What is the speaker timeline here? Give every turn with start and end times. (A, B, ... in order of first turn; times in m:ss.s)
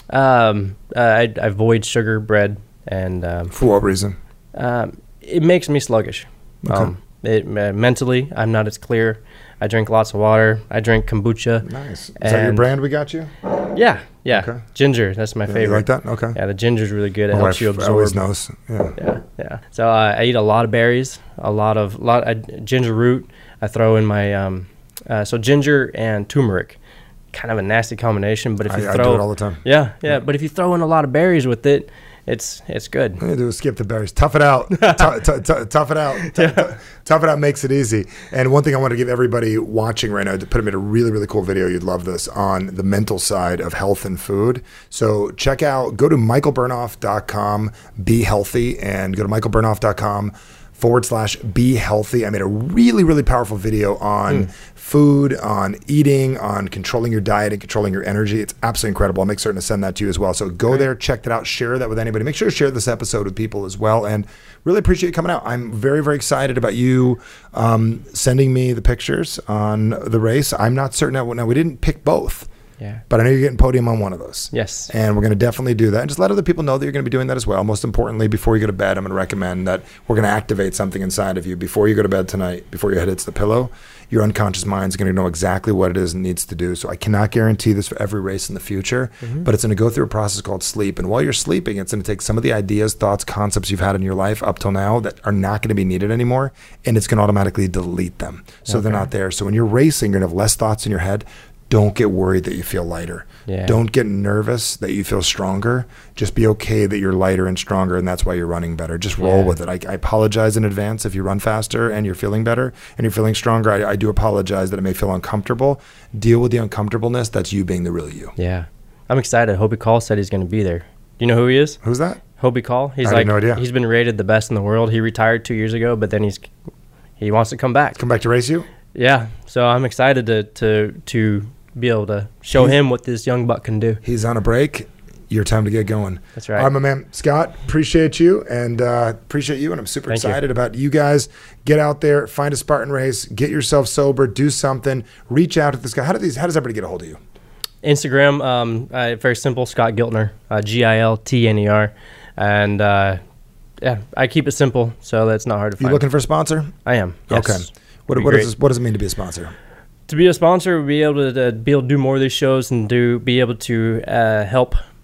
0:00.1-0:03.5 A
0:03.5-0:04.2 B
0:04.6-0:11.7 A
0:06.6-0:06.9 B
0:11.6-0:13.3 B
0:12.2-0:12.6 A
0:13.7-0:18.2 A
0:14.3-0:14.6 B
0:15.5-0:16.4 B
0:17.3-0:19.0 B
0:19.0-0:26.8 A
0:27.3-0:33.2 A
0:28.6-0:29.6 B
0:33.2-1:12.5 B
0:34.8-0:35.1 A
0:36.2-0:36.7 A
1:13.1-1:58.3 B
1:14.5-1:14.9 A
1:38.7-1:39.1 A
1:43.5-1:43.8 A
1:49.2-1:49.5 A
1:58.4-2:01.8 A
2:01.8-2:02.2 B
2:02.4-2:06.5 A
2:03.0-2:03.6 B
2:07.2-2:08.0 A
2:08.0-2:08.7 B
2:08.9-2:14.0 A
2:14.0-2:27.2 B
2:16.4-2:16.7 A
2:20.1-2:20.4 A
2:27.8-2:33.2 A
2:33.8-2:36.0 A
2:35.8-2:36.7 B
2:36.8-2:38.5 A
2:37.3-2:39.5 B
2:40.1-2:44.8 A